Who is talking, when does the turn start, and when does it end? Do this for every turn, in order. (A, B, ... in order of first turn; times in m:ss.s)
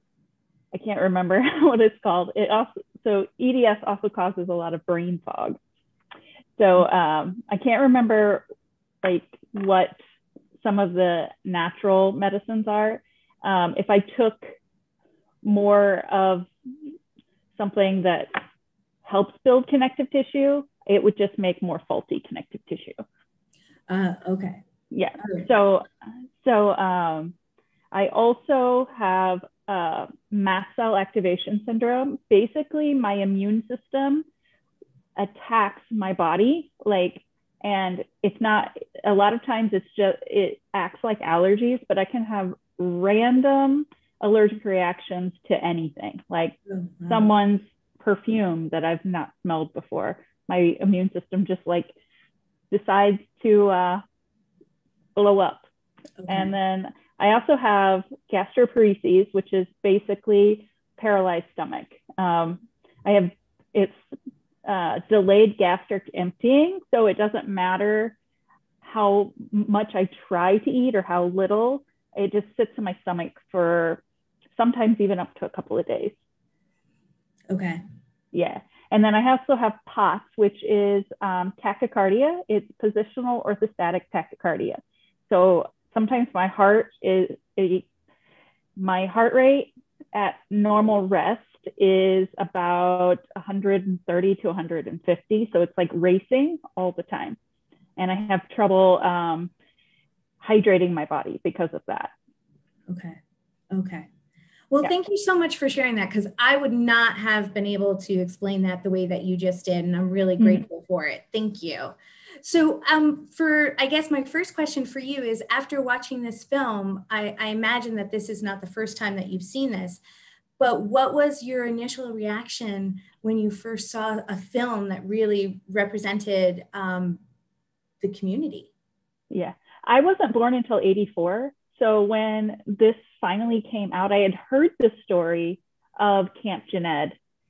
0:00.7-0:05.6 A
0:06.6-0:08.4 A
0:09.0-0:10.0 A
0:10.6-0:14.5 A
0:15.4-0:16.5 A
0:17.6-0:18.4 A
0:19.0-0:23.0 A
0:23.9-0:24.6 B
0:24.9-0:25.9 A
0:26.4-0:27.3 A
0:27.9-0:34.2 A
0:35.2-0:51.9 A
0:46.7-0:47.3 B
0:52.7-0:54.0 A
0:55.2-0:55.6 A
0:56.2-0:56.5 B
0:56.3-1:04.0 A
1:04.6-1:08.2 A
1:08.8-1:14.0 A
1:14.6-1:16.2 A
1:17.5-1:17.8 B
1:18.3-1:27.9 A
1:28.8-1:37.4 A
1:38.0-1:39.5 A
1:40.4-1:42.1 A
1:42.9-1:43.2 B
1:43.7-1:44.1 B
1:44.7-2:00.0 B
2:00.6-2:07.2 B
2:08.0-2:08.7 B
2:09.3-2:17.2 A